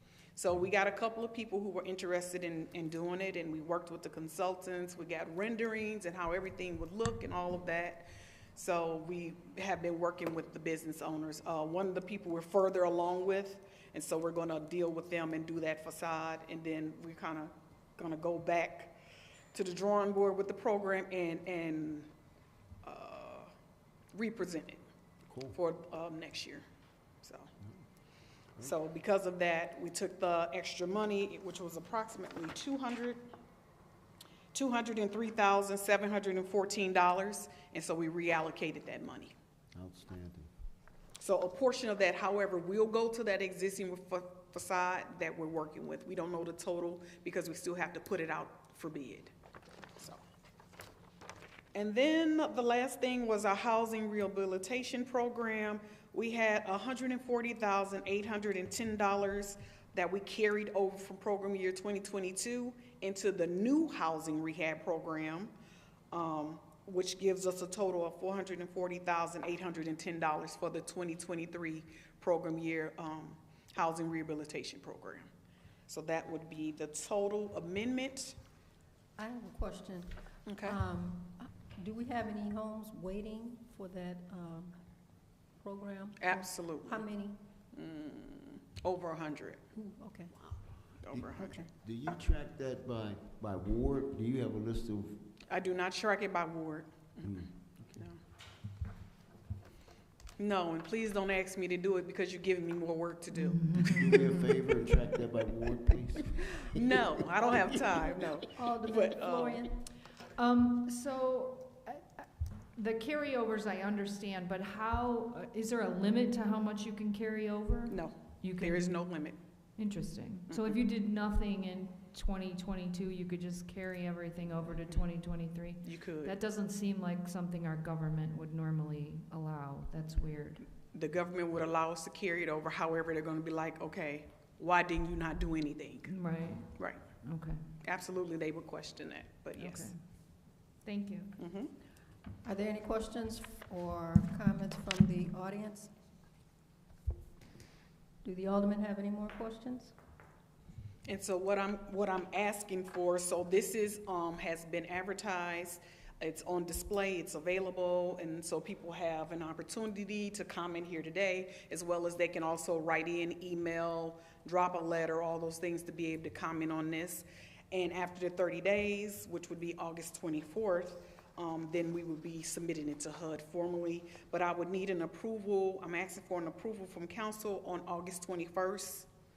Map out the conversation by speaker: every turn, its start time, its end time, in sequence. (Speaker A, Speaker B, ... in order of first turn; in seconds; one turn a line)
Speaker A: 0.3-19.0
Speaker A: 19.5-22.1
Speaker A: 22.8-23.5
Speaker A: 24.1-24.8
Speaker B: 25.3-25.6
Speaker A: 25.5-26.6
Speaker A: 27.2-27.5
Speaker A: 28.6-33.3
Speaker A: 34.5-39.3
Speaker B: 39.7-40.5
Speaker A: 41.2-49.3
Speaker A: 51.7-65.5
Speaker A: 66.1-75.3
Speaker A: 75.9-78.4
Speaker C: 79.2-84.8
Speaker A: 80.5-80.8
Speaker C: 85.6-87.4
Speaker A: 86.2-87.0
Speaker A: 87.7-89.6
Speaker C: 89.8-90.3
Speaker A: 91.0-91.7
Speaker B: 91.1-95.3
Speaker A: 95.5-97.3
Speaker B: 97.2-98.1
Speaker A: 100.4-104.1
Speaker D: 103.3-104.2
Speaker B: 103.8-107.0
Speaker A: 106.7-109.7
Speaker C: 107.9-109.8
Speaker D: 110.4-130.6
Speaker A: 117.9-119.4
Speaker A: 120.5-120.8
Speaker A: 125.8-126.4
Speaker A: 130.7-137.0
Speaker D: 136.1-137.6
Speaker A: 137.8-139.9
Speaker D: 139.6-140.0
Speaker D: 140.8-141.4
Speaker A: 141.4-141.7
Speaker C: 142.4-145.9
Speaker C: 148.2-149.9
Speaker A: 151.1-179.1